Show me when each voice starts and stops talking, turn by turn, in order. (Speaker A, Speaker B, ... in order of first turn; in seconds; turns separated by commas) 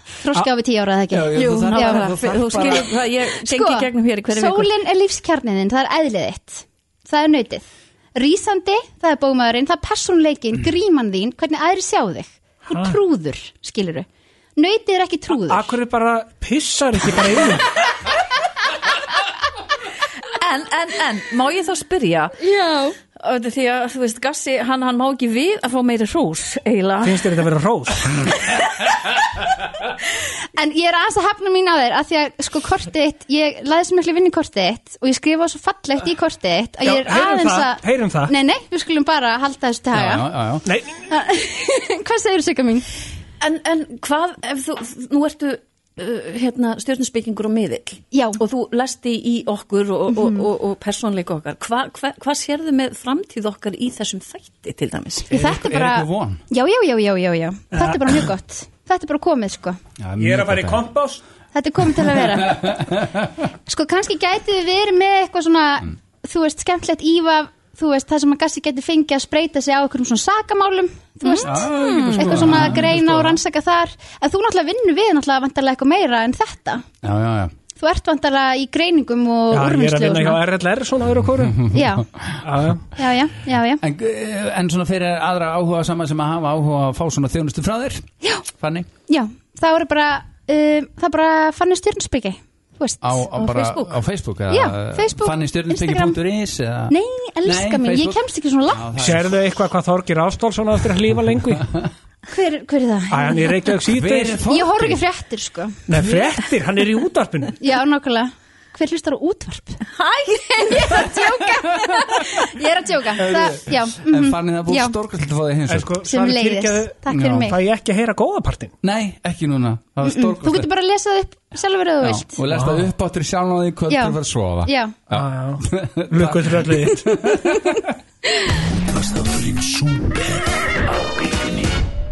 Speaker A: 0.2-2.1, Speaker B: 1.1-3.0, Speaker C: 1.3-4.7, Speaker A: 3.5-15.7, Speaker D: 12.7-13.0, Speaker D: 15.3-17.6, Speaker C: 20.4-22.4, Speaker A: 22.4-22.9, Speaker C: 23.2-27.4, Speaker D: 27.0-28.1, Speaker A: 30.6-40.3, Speaker D: 36.8-38.3, Speaker B: 39.9-40.6, Speaker D: 40.6-40.9, Speaker A: 41.1-42.9, Speaker C: 43.4-55.3, Speaker A: 48.1-48.4, Speaker B: 55.3-56.4, Speaker A: 55.3-59.8, Speaker D: 57.7-58.0, Speaker B: 60.0-60.9, Speaker D: 60.2-61.2, Speaker A: 61.5-62.7, Speaker B: 62.2-63.1, Speaker A: 63.7-76.8, Speaker C: 71.2-72.4, Speaker B: 71.4-73.4, Speaker B: 77.0-77.5, Speaker A: 77.8-80.4, Speaker D: 79.5-81.7, Speaker B: 81.4-82.4, Speaker A: 81.7-82.1, Speaker D: 82.4-82.8, Speaker A: 83.0-83.8, Speaker B: 83.8-88.9, Speaker A: 89.1-93.3, Speaker B: 93.0-98.2, Speaker C: 93.4-93.9, Speaker A: 94.5-96.2, Speaker A: 96.9-98.8, Speaker B: 98.7-99.4, Speaker D: 99.0-101.7, Speaker A: 102.3-103.5, Speaker D: 103.1-104.5, Speaker B: 103.9-105.0, Speaker A: 104.5-105.8, Speaker D: 105.9-107.5, Speaker A: 107.6-114.9, Speaker C: 110.0-111.0, Speaker B: 113.2-116.0, Speaker D: 115.7-118.7, Speaker A: 116.0-117.5, Speaker B: 117.1-117.5, Speaker B: 118.8-120.7, Speaker A: 120.0-122.4, Speaker B: 122.0-127.9, Speaker D: 122.5-122.9, Speaker A: 123.9-124.9, Speaker D: 125.1-127.3, Speaker E: 128.9-131.7